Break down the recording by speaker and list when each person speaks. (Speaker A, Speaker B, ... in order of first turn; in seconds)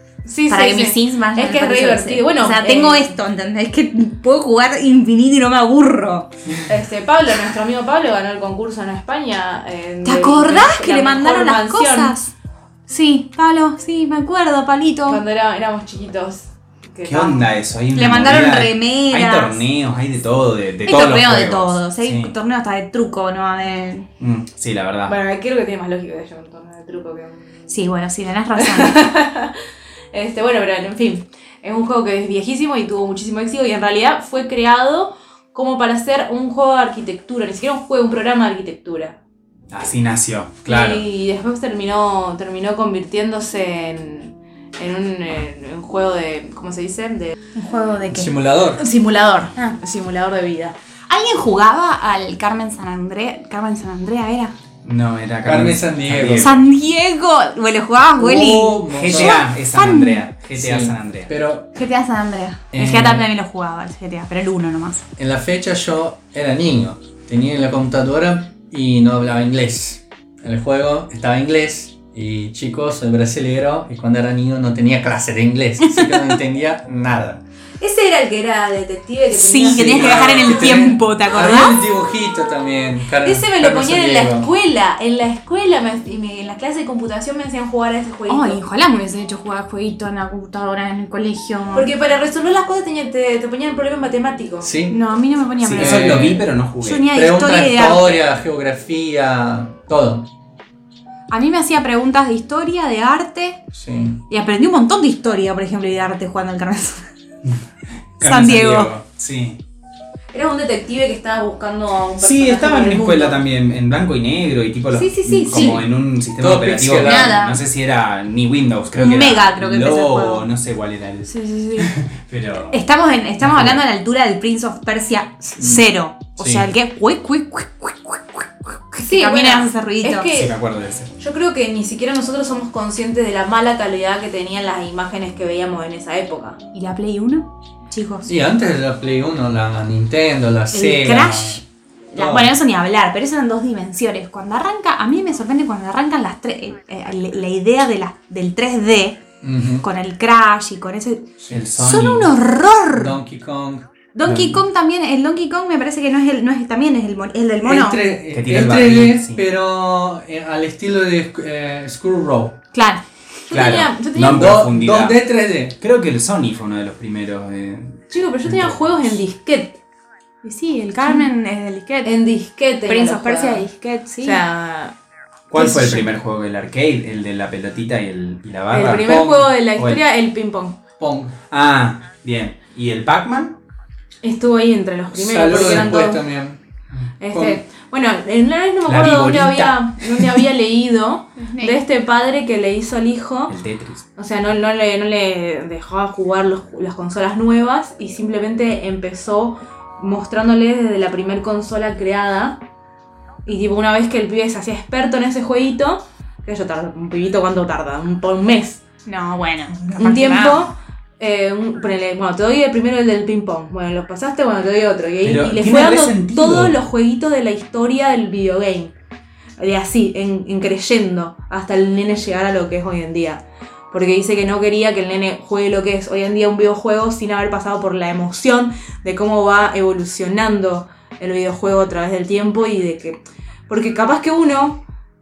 Speaker A: 0.2-3.1, 6.7-12.2, 15.1-17.5, 25.1-27.5, 28.6-29.6, 30.1-39.2, 40.6-47.3, 48.8-50.7, 77.8-80.7, 83.2-88.6, 91.7-94.7, 110.3-113.4, 114.9-115.8, 121.3-121.9, 129.0-130.5, 131.2-136.6, 163.5-164.6, 168.1-169.8, 172.0-173.7, 174.2-174.9, 175.6-176.0, 178.7-180.8, 184.2-186.2, 187.2-193.5, 194.2-202.6, 203.4-208.8, 209.9-218.9, 219.6-234.8
Speaker B: 0.5-6.3, 10.0-12.3, 12.9-15.2, 17.9-19.6, 20.9-24.1, 27.7-29.0, 47.5-48.3, 51.1-54.5, 56.4-60.2, 61.7-65.0, 75.8-76.2, 79.3-81.8, 88.3-91.9, 94.9-98.2, 101.3-103.6, 104.3-107.0, 108.2-108.9, 115.3-115.8, 117.0-117.6, 119.0-120.4, 122.7-130.3, 136.7-138.3, 140.7-149.2, 149.8-153.2, 154.1-158.0, 162.7-163.0, 170.4-172.1, 172.9-174.4, 191.4-191.8, 209.1-210.7
Speaker C: 17.1-22.3, 24.2-25.1, 39.7-41.0, 54.8-56.6, 58.9-61.3, 95.6-97.1, 108.2-109.6, 112.2-122.8, 130.3-131.1, 151.5-152.3, 154.3-154.6, 158.3-159.4, 163.5-165.2, 165.8-169.1, 175.5-180.0, 181.5-183.6, 188.8-190.3, 193.5-194.0, 215.2-216.8
Speaker D: 48.1-48.8, 55.4-56.5, 58.2-59.4, 60.5-61.7, 62.7-63.3, 65.2-77.4, 79.7-84.5, 94.6-95.0, 95.8-96.5, 97.1-100.3, 103.7-104.2, 116.4-117.4, 125.6-125.8, 126.4-126.6, 138.2-141.6, 142.2-142.5, 149.4-149.8, 152.9-153.9, 157.6-162.6, 164.2-165.8, 181.0-181.3, 185.1-186.6, 187.3-187.6